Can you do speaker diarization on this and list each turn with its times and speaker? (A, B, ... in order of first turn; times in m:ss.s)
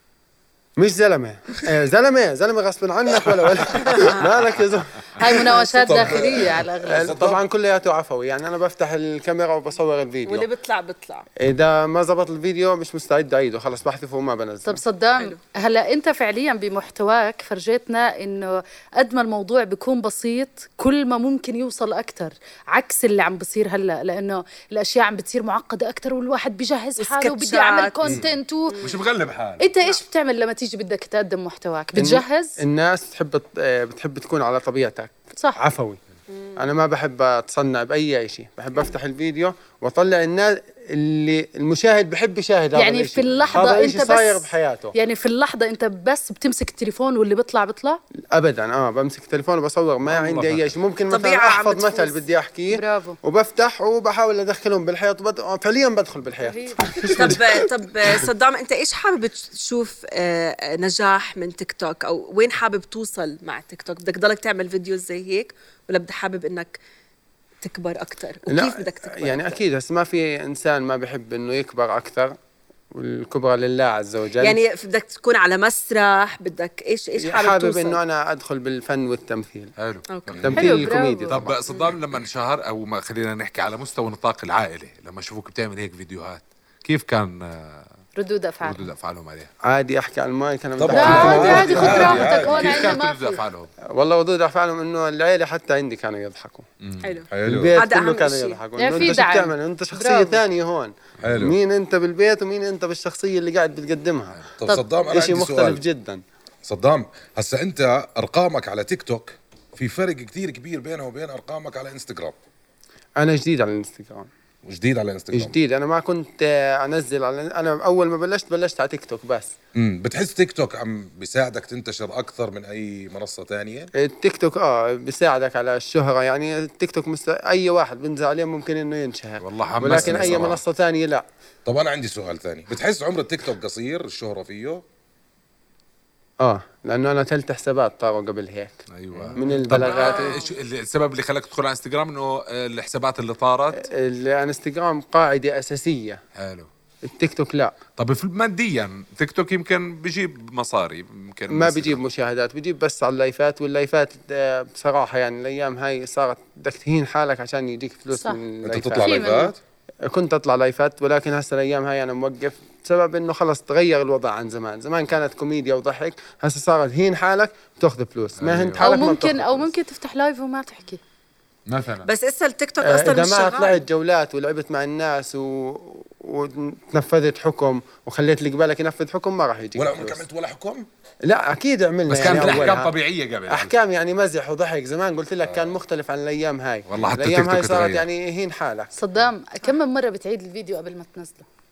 0:00.8-0:05.5 A
0:05.2-0:07.3 B
0:05.6-0:06.4 C
0:05.9-0:07.4 D
0:06.8-0:10.5 A
0:10.2-0:11.3 C
0:11.4-0:14.8 A
0:14.7-0:28.8 B
0:27.0-0:29.0 C
0:28.0-0:28.3 E
0:28.8-0:29.7 E
0:29.6-0:32.6 B
0:32.0-0:36.0 A
0:36.3-0:36.7 C
0:36.6-0:45.0 A
0:42.7-0:48.0 B
0:43.4-0:43.8 E
0:48.3-0:57.5 A
0:50.0-0:50.7 E
0:51.1-0:52.2 C
0:52.7-0:53.2 B
0:56.4-0:56.8 B
0:57.1-1:06.8 C
1:07.6-1:09.6 C
1:08.5-1:12.3 A
1:12.9-1:14.6 A
1:14.4-1:18.0 C
1:17.2-1:19.7 A
1:19.8-1:27.9 E
1:20.1-1:20.6 C
1:20.3-1:20.7 D
1:20.4-1:21.6 A
1:20.6-1:21.5 B
1:28.2-1:28.9 B
1:28.6-1:29.5 E
1:29.6-1:32.4 A
1:30.8-1:33.0 D
1:30.9-1:33.7 E
1:31.0-1:33.4 B
1:33.9-1:36.7 A
1:36.8-1:37.2 E
1:37.0-1:38.6 C
1:37.3-1:37.7 D
1:37.4-1:44.4 A
1:38.8-1:40.4 B
1:41.3-1:41.5 D
1:44.6-1:45.8 D
1:45.0-1:46.2 A
1:46.6-1:52.4 D
1:53.2-1:54.3 A
1:54.6-1:55.6 D
1:55.3-1:59.5 A
1:59.8-2:03.9 D
2:04.0-2:11.2 A
2:09.4-2:10.6 E
2:09.9-2:10.5 D
2:11.6-2:14.8 D
2:16.4-2:18.8 A
2:18.9-2:23.8 E
2:19.3-2:20.4 A
2:19.8-2:20.5 C
2:23.7-2:26.2 A
2:26.4-2:26.7 E
2:27.0-2:27.8 A
2:28.0-2:32.0 E
2:31.5-2:39.2 A
2:38.1-2:38.4 B
2:38.7-2:39.6 D
2:39.0-2:39.5 B
2:40.1-2:49.7 A
2:48.4-2:48.9 E
2:48.7-2:51.0 B
2:51.7-2:52.1 E
2:52.0-2:53.8 C
2:52.8-3:00.2 A
2:59.8-3:00.9 D
3:01.2-3:02.9 A
3:02.1-3:03.7 E
3:03.5-3:08.9 A
3:06.9-3:08.1 E
3:08.9-3:11.4 B